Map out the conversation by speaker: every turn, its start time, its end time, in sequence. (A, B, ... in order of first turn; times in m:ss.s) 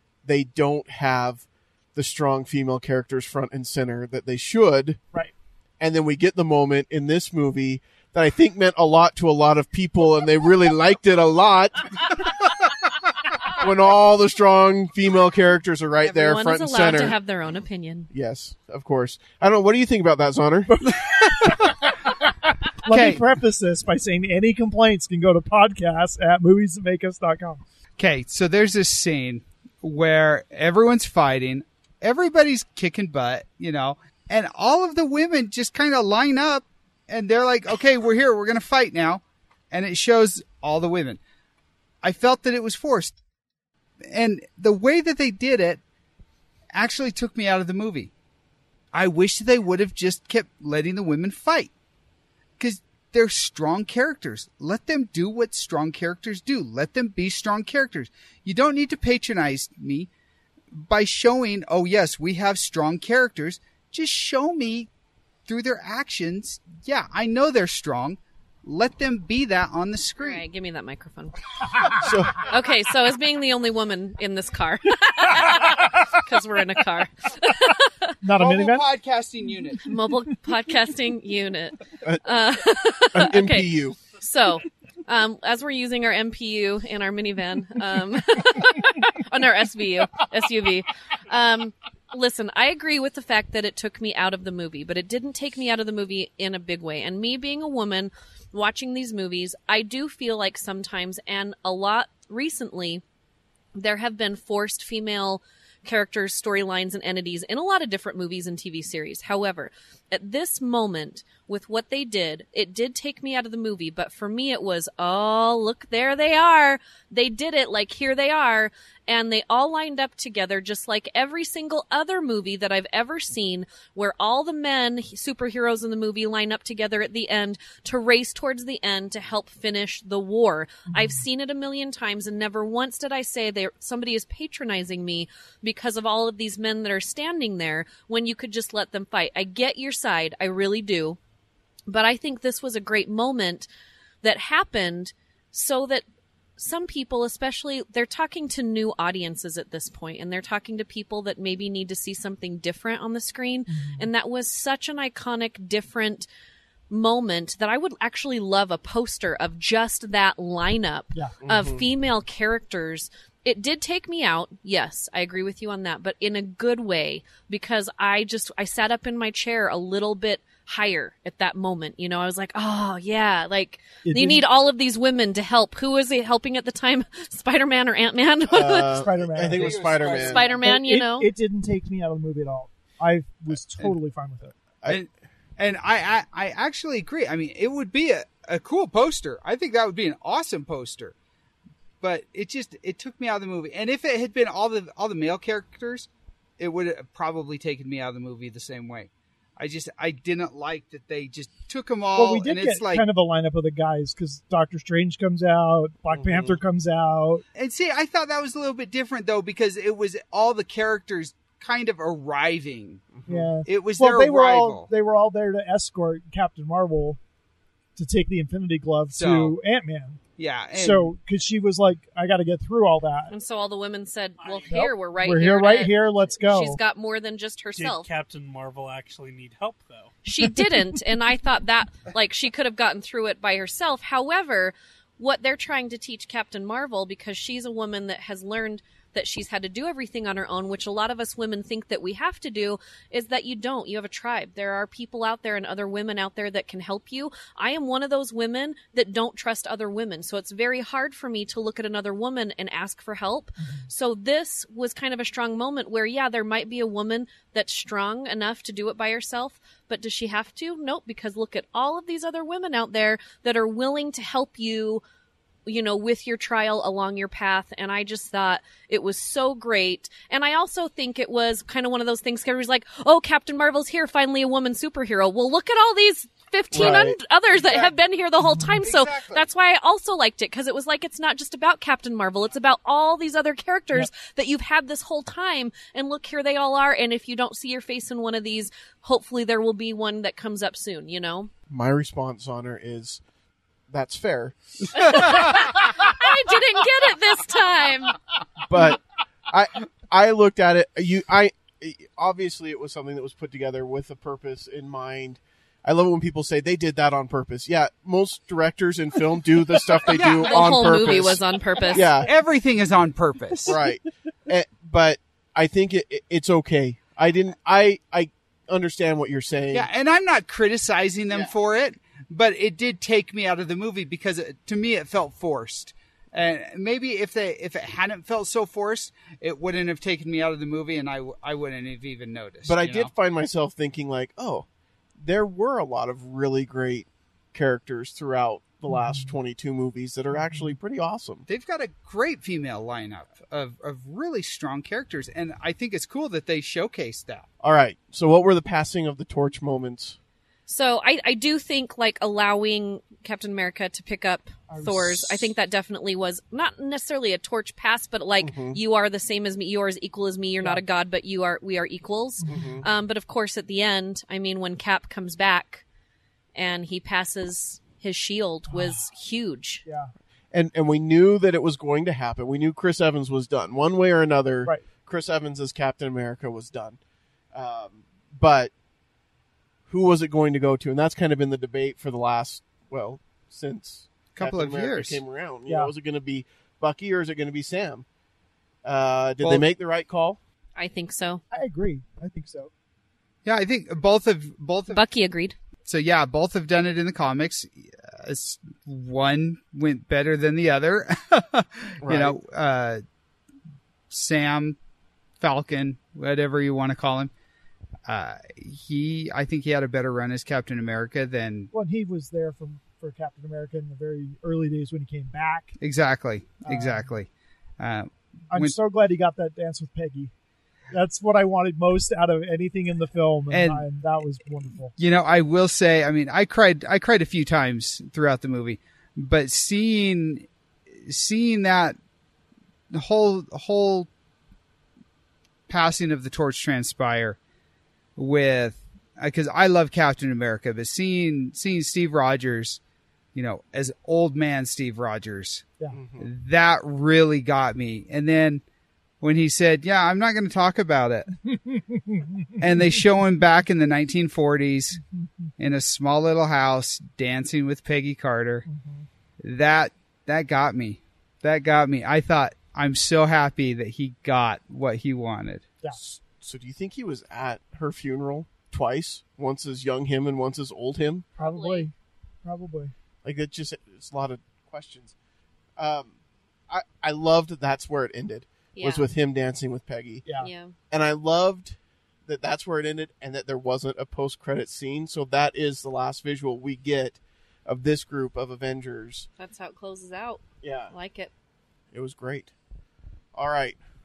0:00.2-0:05.0 A
0:05.8-0:11.9 A
0:13.5-0:17.2 A
0:16.0-0:18.1 B
0:18.1-0:20.8 A
0:20.7-0:22.1 C
0:22.8-0:27.6 C
0:22.9-0:23.2 D
0:28.0-0:41.2 D
0:42.0-0:43.2 D
0:44.1-0:45.8 D
0:46.7-0:48.1 D
0:48.9-0:51.7 D
0:52.6-1:00.1 D
1:00.7-1:04.9 D
1:05.5-1:10.4 D
1:10.2-1:18.2 B
1:12.0-1:12.5 A
1:18.2-1:18.8 C
1:18.4-1:19.9 D
1:19.8-1:43.0 B
1:23.1-1:24.0 A
1:43.8-2:21.2 B
2:21.9-2:23.7 B
2:24.2-2:26.1 B
2:26.6-2:36.3 B
2:33.7-2:34.1 C
2:36.9-2:59.0 B
2:41.4-2:41.9 A
2:54.0-2:54.4 C
2:58.5-3:00.5 A
2:58.9-3:04.5 C
2:59.5-3:00.6 D
3:00.2-3:01.3 B
3:04.9-3:11.1 D
3:12.0-3:16.1 D
3:16.6-3:23.1 D
3:22.2-3:27.4 C
3:26.1-3:26.6 A
3:27.6-3:33.1 D
3:33.1-3:33.5 A
3:33.3-3:37.2 C
3:33.6-3:34.9 D
3:38.0-3:40.2 C
3:39.1-3:39.6 D
3:40.4-3:41.1 D
3:40.7-3:43.3 C
3:43.3-3:48.1 B
3:44.4-3:44.9 E
3:44.7-3:46.8 C
3:47.8-3:50.2 E
3:50.2-4:25.0 B
4:25.7-4:51.5 B
4:36.7-4:37.2 A
4:37.6-4:38.0 D
4:38.8-4:39.5 D
4:51.7-4:53.2 A
4:53.9-4:55.5 A
4:55.0-4:58.2 B
4:58.7-5:12.3 A
5:10.1-5:10.9 D
5:10.4-5:12.1 B
5:12.2-5:13.8 D
5:13.7-5:19.9 A
5:19.7-5:33.1 D
5:32.6-5:34.7 A
5:35.2-5:41.4 A
5:38.9-5:39.3 C
5:41.5-5:47.5 D
5:47.6-5:50.2 A
5:50.7-6:05.8 B
5:54.7-5:55.5 C
5:58.4-5:58.8 A
6:02.4-6:02.8 C
6:02.5-6:02.9 A
6:06.6-6:09.8 B
6:08.7-6:09.0 C
6:09.8-6:10.1 C
6:10.5-6:17.0 A
6:17.5-6:18.7 A
6:19.9-6:28.0 A
6:24.4-6:25.2 D
6:28.8-6:30.4 A
6:30.8-6:31.4 B
6:31.5-6:32.7 C
6:33.4-6:35.0 D
6:34.9-6:35.6 B
6:35.8-6:43.0 D
6:42.0-6:42.4 A
6:44.1-6:44.8 D
6:45.4-6:47.3 D
6:48.1-6:51.7 D
6:51.7-6:55.7 C
6:55.8-6:58.8 D
6:56.6-6:57.1 C
6:58.5-7:00.3 C
7:00.9-7:04.9 C
7:03.5-7:03.9 D
7:05.0-7:12.0 D
7:12.9-7:14.1 D
7:15.7-7:17.4 D
7:18.2-7:22.8 D
7:23.4-7:25.7 D
7:25.9-7:26.3 A
7:26.2-7:28.6 D
7:29.2-7:31.4 D
7:31.5-7:32.5 C
7:32.6-7:35.0 D
7:35.2-7:35.5 C
7:35.6-7:38.7 D
7:38.7-7:39.1 C
7:39.4-7:45.7 D
7:45.9-7:51.3 A
7:51.4-7:51.9 B
7:51.4-7:51.9 C
7:52.4-7:52.9 C
7:53.2-7:55.2 A
7:55.8-7:56.2 A
7:56.7-8:00.2 A
7:58.8-7:59.1 B
8:00.2-8:00.5 C
8:00.4-8:00.7 B
8:00.9-8:09.3 A
8:09.4-8:11.3 B
8:10.6-8:10.9 A
8:11.9-8:12.5 A
8:13.4-8:13.8 A